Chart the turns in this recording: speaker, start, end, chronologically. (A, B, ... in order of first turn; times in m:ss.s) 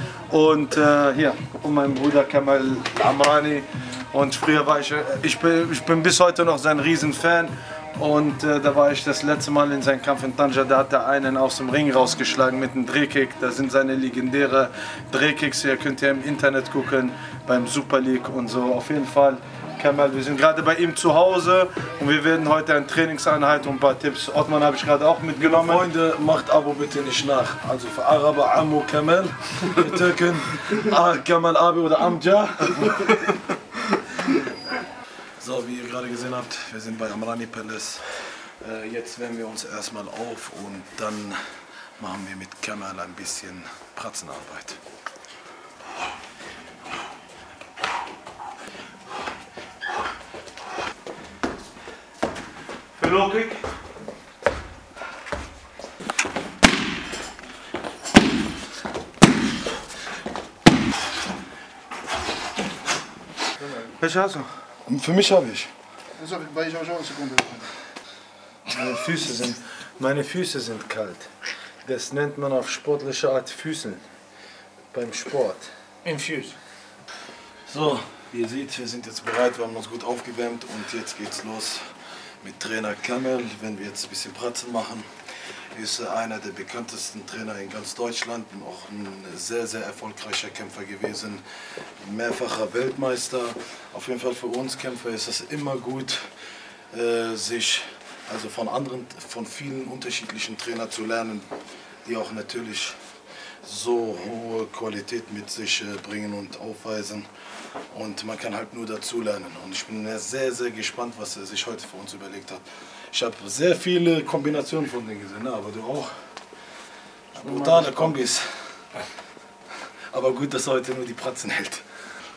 0:00.3-0:25.9 A
0:25.4-0:33.3 B
0:35.4-0:41.4 B
0:42.0-0:44.8 B
0:53.0-0:53.6 A
1:03.7-1:04.5 A
1:04.8-1:05.7 B
1:06.2-1:07.7 C
1:08.7-1:11.3 A
1:11.8-1:14.0 A
1:14.9-1:15.7 A
1:16.0-1:16.5 C
1:17.7-1:25.1 B
1:25.7-1:31.4 B
1:32.0-1:36.3 B
1:36.9-1:41.5 B
1:42.0-1:43.0 B
1:43.6-1:47.3 B
1:47.9-1:56.3 B
1:57.3-1:58.1 A
1:57.4-1:58.6 B
2:00.1-2:01.8 B